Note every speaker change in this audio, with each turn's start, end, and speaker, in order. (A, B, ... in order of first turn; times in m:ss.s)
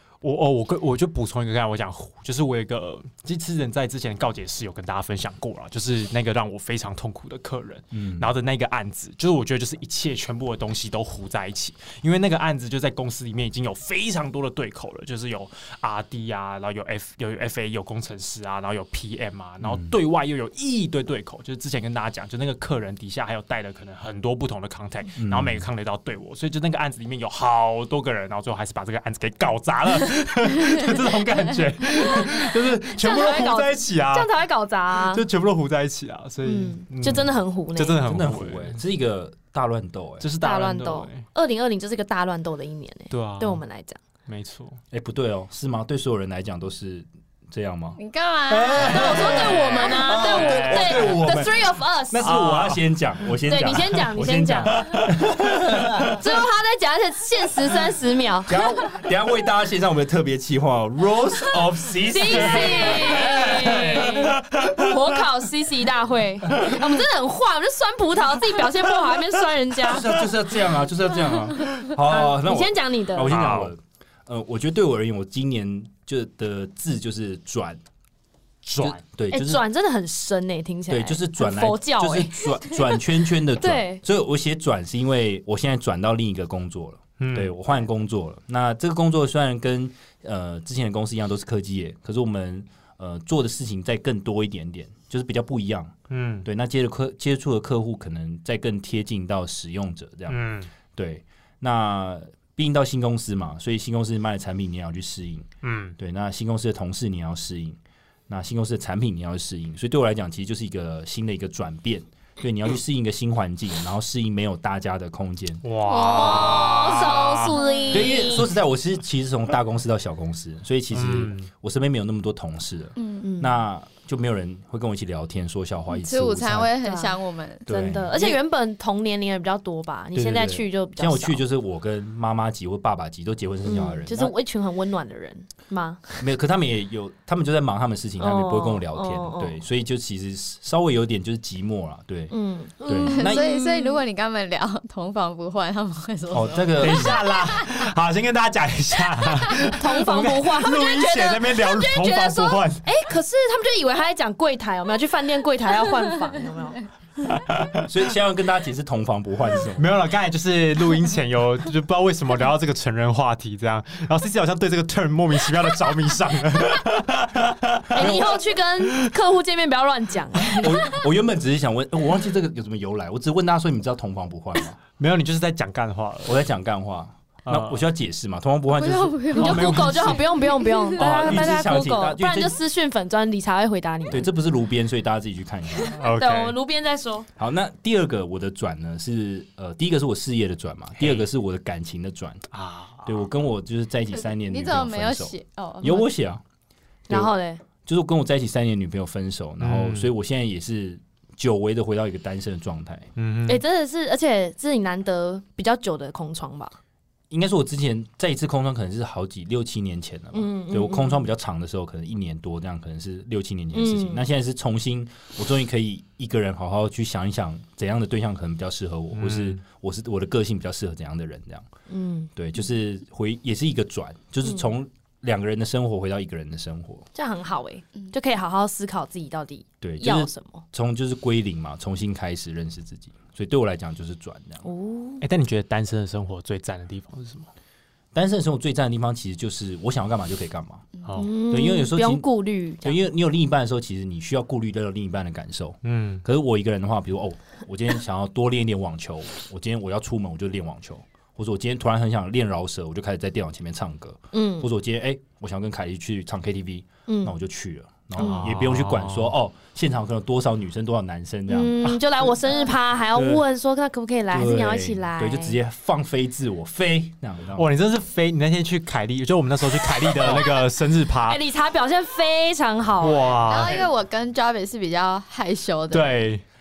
0:00.2-0:34.3 A
0:07.9-0:08.3 B
0:19.6-0:19.9 B
0:25.2-0:25.6 B
0:31.9-0:35.2 C
0:35.0-0:38.8 A
0:36.4-0:38.0 C
0:38.0-0:40.3 B
0:40.2-0:41.2 A
0:40.4-0:44.0 C
0:43.1-0:43.6 A
0:44.3-0:44.8 A
0:44.9-0:48.0 B
0:48.0-0:49.9 D
0:48.5-0:51.4 A
0:48.7-0:56.2 B
0:48.8-0:52.4 C
0:52.2-0:52.8 A
0:53.5-0:54.8 C
0:54.7-0:56.2 A
0:56.1-0:58.6 C
0:58.5-1:04.4 B
1:02.1-1:10.1 C
1:04.5-1:04.8 A
1:09.8-1:17.8 B
1:11.9-1:13.4 C
1:13.3-1:13.7 A
1:18.6-1:19.0 A
1:18.8-1:19.6 B
1:19.3-1:23.0 C
1:20.9-1:47.8 B
1:23.6-1:24.0 C
1:27.2-1:27.5 A
1:36.1-1:36.5 A
1:40.3-1:40.7 A
1:45.6-1:46.0 A
1:48.3-1:55.6 B
1:55.6-1:57.6 A
1:55.8-1:58.2 D
1:56.1-1:58.5 C
1:57.9-2:06.7 B
2:00.9-2:01.5 A
2:03.0-2:03.3 D
2:03.2-2:03.6 C
2:05.9-2:07.7 D
2:06.8-2:11.4 C
2:07.7-2:08.4 B
2:10.1-2:14.3 B
2:13.6-2:16.2 C
2:16.2-2:22.3 B
2:18.2-2:19.6 C
2:22.3-2:24.0 C
2:22.9-2:23.5 B
2:23.0-2:27.8 D
2:26.3-2:27.2 B
2:26.8-2:32.9 A
2:29.8-2:36.9 C
2:37.3-2:37.9 A
2:37.8-2:39.9 B
2:39.8-2:48.0 A
2:47.9-2:51.0 C
2:48.0-2:48.4 B
2:50.6-2:54.8 B
2:55.0-2:56.4 A
2:56.3-3:00.2 B
2:57.5-2:57.8 A
2:58.7-3:01.3 D
2:59.3-3:00.3 A
2:59.4-3:04.3 C
3:01.0-3:02.6 B
3:04.1-3:06.0 B
3:06.0-3:06.6 A
3:06.0-3:07.3 C
3:07.4-3:12.4 B
3:11.0-3:11.2 A
3:12.5-3:13.2 A
3:13.0-3:16.4 B
3:14.1-3:16.1 D
3:17.1-3:17.6 C
3:17.9-3:23.1 B
3:19.6-3:20.1 A
3:23.2-3:23.6 A
3:23.5-3:26.7 C
3:27.3-3:41.7 B
3:30.3-3:31.3 C
3:33.7-3:34.2 C
3:39.1-3:39.6 A
3:41.9-3:42.3 C
3:42.4-3:47.0 B
3:47.2-3:50.6 C
3:49.8-3:54.6 B
3:54.6-3:55.2 C
3:55.2-3:57.5 A
3:58.1-4:00.9 B
4:01.0-4:01.3 A
4:01.2-4:03.0 C
4:01.5-4:02.3 B
4:02.8-4:21.8 B
4:05.8-4:06.2 A
4:14.3-4:14.7 C
4:17.1-4:17.4 C
4:18.2-4:19.3 A
4:18.2-4:18.5 C
4:21.5-4:25.6 C
4:21.8-4:22.3 A
4:23.2-4:23.4 A
4:24.3-4:27.7 B
4:27.6-4:31.4 A
4:30.2-4:30.4 B
4:31.3-4:33.4 C
4:33.0-4:33.9 A
4:33.4-4:36.2 D
4:35.9-4:36.4 A